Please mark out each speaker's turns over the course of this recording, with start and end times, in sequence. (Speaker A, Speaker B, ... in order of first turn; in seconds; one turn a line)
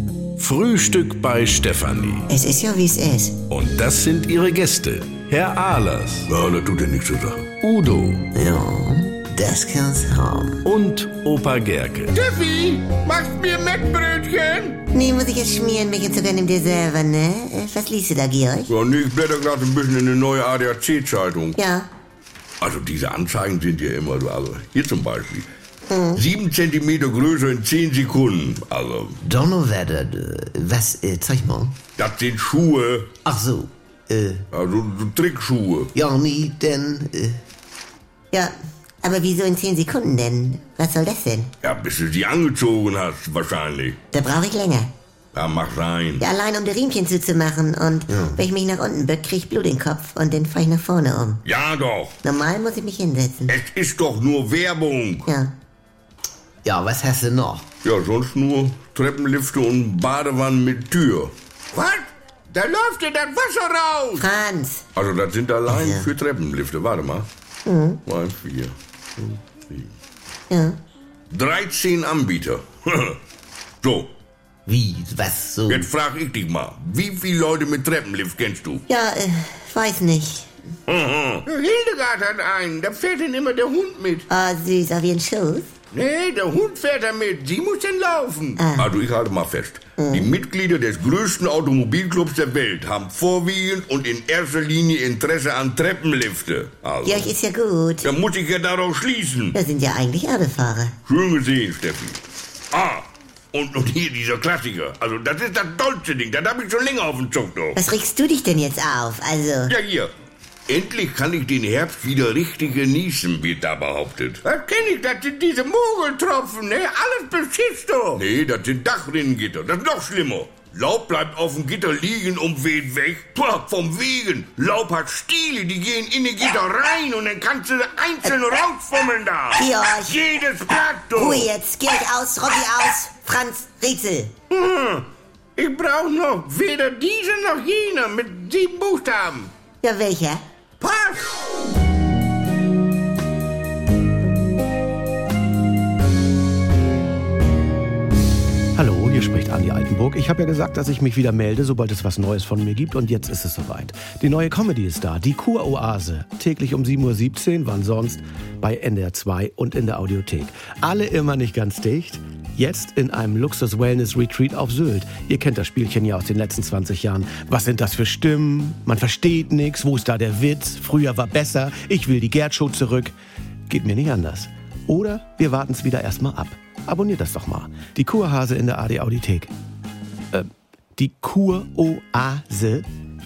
Speaker A: 0.4-2.3
Speaker B: 2.3-3.4
Speaker A: 3.5-6.3
Speaker C: 6.3-7.6
Speaker A: 7.6-8.2
Speaker D: 8.3-10.6
Speaker A: 10.6-12.2
Speaker E: 12.2-14.8
Speaker B: 14.9-18.7
Speaker C: 18.7-21.6
Speaker B: 21.6-21.9
Speaker C: 22.6-25.5
Speaker B: 25.9-26.2
Speaker C: 26.1-29.2
Speaker D: 29.2-31.8
Speaker C: 32.0-33.1
Speaker D: 33.2-34.4
Speaker C: 34.5-35.9
Speaker D: 35.9-37.4
Speaker B: 38.3-41.5
Speaker C: 41.6-44.0
Speaker B: 44.1-44.9
Speaker C: 45.3-46.2
Speaker B: 46.2-51.4
Speaker D: 48.1-48.4
Speaker C: 51.4-52.2
Speaker B: 52.2-53.5
Speaker C: 53.5-55.2
Speaker B: 55.3-55.5
Speaker D: 56.6-57.6
Speaker C: 57.8-61.3
Speaker E: 61.7-62.0
Speaker E: 62.5-63.3
Speaker C: 63.3-64.0
Speaker B: 64.2-64.8
Speaker C: 65.0-67.3
Speaker B: 65.7-66.1
Speaker B: 67.7-68.0
Speaker C: 68.0-68.7
Speaker B: 70.5-70.8
Speaker C: 71.3-73.2
Speaker C: 73.8-74.1
Speaker D: 74.7-75.9
Speaker C: 75.7-78.8
Speaker B: 78.9-80.5
Speaker C: 80.9-81.4
Speaker E: 81.4-84.2
Speaker B: 84.3-85.7
Speaker E: 85.9-88.5
Speaker B: 88.6-88.9
Speaker C: 88.8-97.3
Speaker B: 90.0-90.3
Speaker B: 97.0-98.1
Speaker C: 98.0-99.5
Speaker B: 99.5-100.9
Speaker C: 101.0-102.2
Speaker C: 102.7-107.8
Speaker B: 107.8-109.7
Speaker C: 109.7-110.1
Speaker C: 110.7-114.4
Speaker E: 114.4-118.2
Speaker C: 118.1-131.4
Speaker B: 128.2-128.5
Speaker B: 129.5-130.2
Speaker B: 131.1-134.3
Speaker E: 134.5-135.0
Speaker E: 135.6-139.5
Speaker B: 139.8-140.4
Speaker E: 140.8-141.2
Speaker F: 148.8-173.1
Speaker F: 173.7-179.5
Speaker F: 180.3-182.8